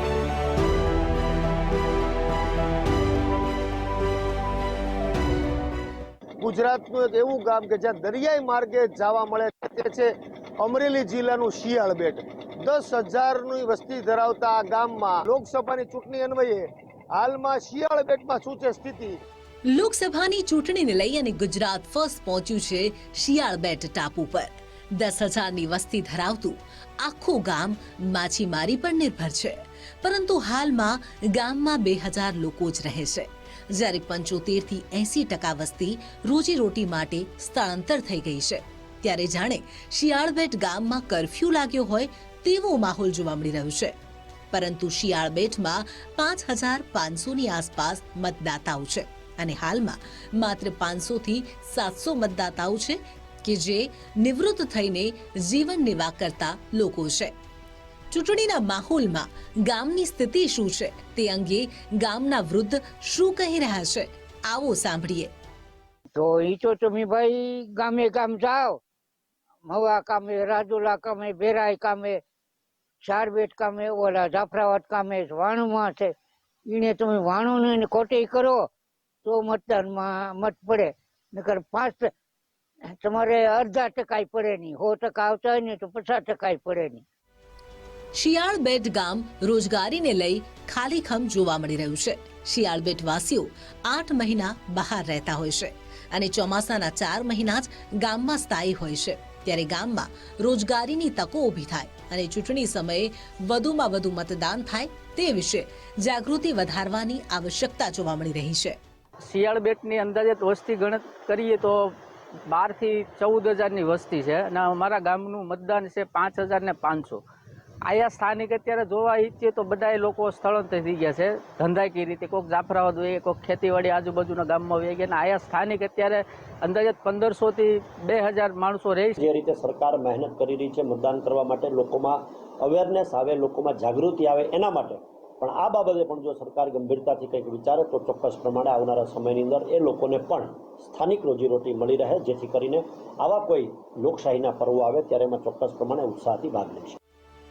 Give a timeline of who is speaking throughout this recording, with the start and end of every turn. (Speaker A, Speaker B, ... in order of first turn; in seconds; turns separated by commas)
Speaker A: 6.4-19.2, Speaker B: 19.7-43.9, Speaker B: 44.5-57.3, Speaker B: 58.1-65.3, Speaker C: 66.1-68.8, Speaker C: 69.7-72.2, Speaker C: 73.0-76.1, Speaker C: 76.7-78.7, Speaker C: 79.2-82.1, Speaker C: 83.0-87.0, Speaker B: 88.2-108.8, Speaker D: 109.3-111.9, Speaker D: 112.5-117.2, Speaker D: 117.9-129.2, Speaker E: 129.2-147.0